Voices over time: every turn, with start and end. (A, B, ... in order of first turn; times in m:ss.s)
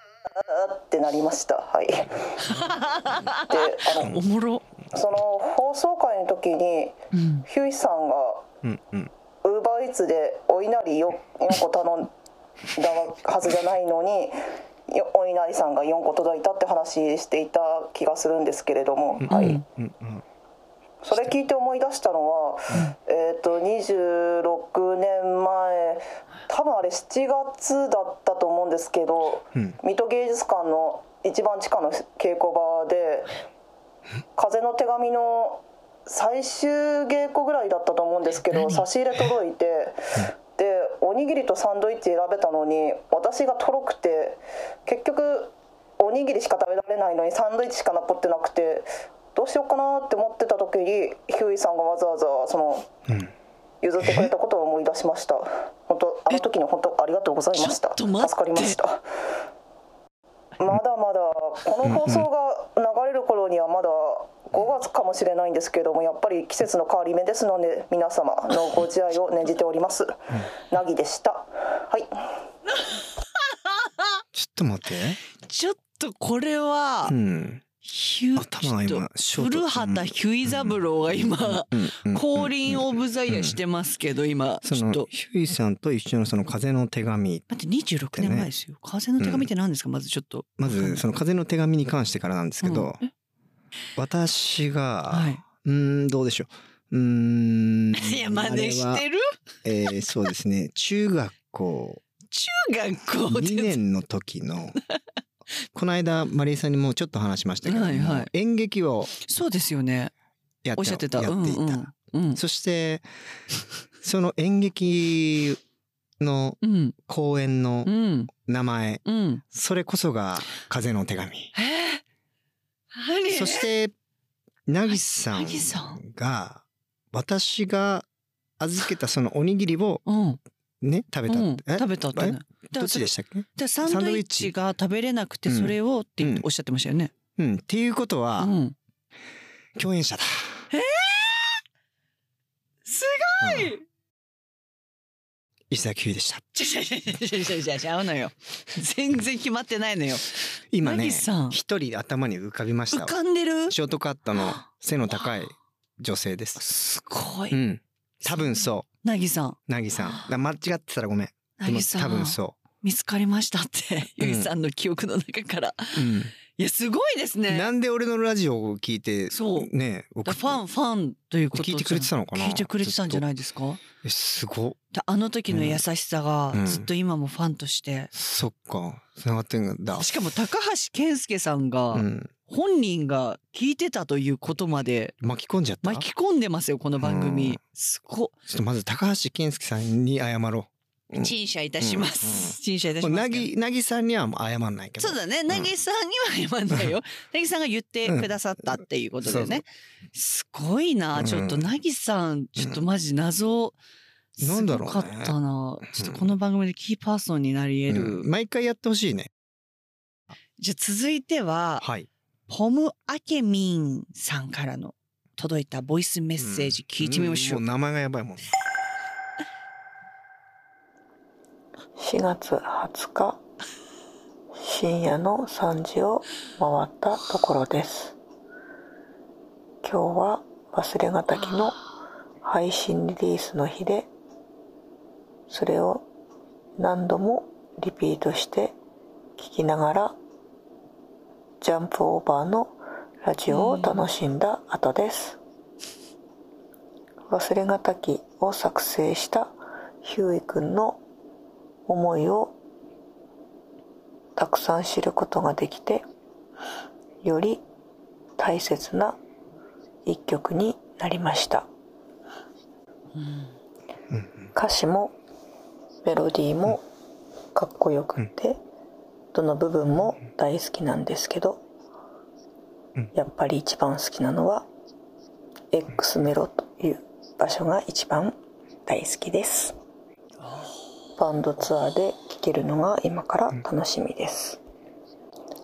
0:00.4-0:02.3 A
0:02.5-0:04.6 B
0:03.4-0:04.2 A
0:04.9-0:07.0 A
0:07.1-0:07.4 B
0:07.5-0:08.5 A
0:08.6-0:09.1 C
0:09.4-0:12.1 A
0:12.7-0:14.3 A
0:14.9-0:19.3 A
0:19.2-0:20.2 C
0:19.3-0:19.6 B
0:21.0-0:33.3 A
0:34.4-0:52.9 A
0:38.5-0:38.8 B
0:53.1-0:53.3 C
0:53.8-0:59.0 A
0:54.0-0:54.3 C
0:57.6-0:58.8 B
1:00.6-1:12.1 A
1:01.8-1:02.3 C
1:14.3-1:15.2 C
1:15.4-1:17.1 B
1:17.1-1:17.6 C
1:17.8-1:25.1 B
1:18.4-1:23.6 C
1:24.6-1:27.5 C
1:27.5-1:31.0 B
1:28.2-1:28.5 C
1:29.2-1:29.5 C
1:30.6-1:33.0 C
1:32.6-1:33.1 B
1:34.0-1:39.0 C
1:35.1-1:35.4 B
1:38.0-1:39.3 B
1:39.6-1:42.0 C
1:42.3-1:43.8 B
1:43.3-1:44.8 C
1:45.7-1:49.1 C
1:47.6-1:48.3 B
1:49.2-1:50.1 B
1:50.6-1:53.0 C
1:50.8-1:52.4 B
1:54.0-1:55.6 C
1:56.2-2:01.5 C
1:56.6-1:56.9 B
1:57.8-1:58.3 B
1:59.0-1:59.4 B
2:01.5-2:02.0 B
2:02.9-2:03.7 B
2:03.3-2:03.9 C
2:04.7-2:08.0 C
2:04.9-2:06.0 B
2:08.6-2:10.0 C
2:10.0-2:10.4 B
2:10.8-2:14.5 C
2:11.3-2:17.1 B
2:15.5-2:16.4 C
2:17.4-2:18.5 C
2:18.4-2:18.7 B
2:19.8-2:20.7 C
2:20.7-2:21.6 B
2:22.8-2:23.8 B
2:23.4-2:23.7 C
2:25.7-2:26.4 C
2:26.5-2:31.6 B
2:30.7-2:33.2 C
2:32.9-2:33.7 B
2:33.7-2:36.6 C
2:34.3-2:34.6 B
2:36.6-2:37.6 B
2:37.5-2:38.9 C
2:38.2-2:40.2 B
2:39.7-2:42.6 C
2:41.6-2:47.7 B
2:44.2-2:44.5 C
2:46.0-2:46.3 C
2:47.5-2:50.6 C
2:49.3-2:49.7 B
2:50.2-2:53.8 B
2:51.5-2:53.2 C
2:54.0-2:54.8 C
2:54.9-2:58.1 B
2:55.5-2:55.8 C
2:56.5-2:56.9 C
2:58.1-3:00.1 C
2:59.9-3:05.1 B
3:01.9-3:02.3 C
3:05.2-3:06.0 C
3:05.8-3:08.3 B
3:07.0-3:07.6 C
3:08.5-3:15.7 C
3:11.2-3:13.5 B
3:15.0-3:23.7 B
3:19.2-3:19.6 C
3:21.2-3:21.7 C
3:24.4-3:28.3 B
3:24.4-3:25.3 C
3:25.9-3:26.3 C
3:27.9-3:29.3 C
3:30.6-3:31.8 B
3:31.8-3:32.1 C
3:32.5-3:37.6 B
3:36.4-3:38.5 C
3:42.0-3:43.4 D
3:44.5-3:48.2 D
3:49.8-3:51.8 D
3:52.4-3:54.1 D
3:55.5-3:56.1 D
3:56.8-3:58.8 D
3:59.4-4:00.2 D
4:01.6-4:05.4 D
4:03.5-4:04.0 B
4:07.3-4:11.0 D
4:11.8-4:12.6 D
4:14.4-4:16.0 D
4:17.2-4:17.6 D
4:18.4-4:19.2 D
4:20.0-4:21.7 D
4:23.2-4:23.5 B
4:24.1-4:24.5 C
4:24.5-4:25.2 D
4:26.0-4:26.8 D
4:27.5-4:28.6 D
4:29.3-4:31.6 D
4:33.1-4:34.7 D
4:35.7-4:39.8 D
4:41.2-4:44.6 D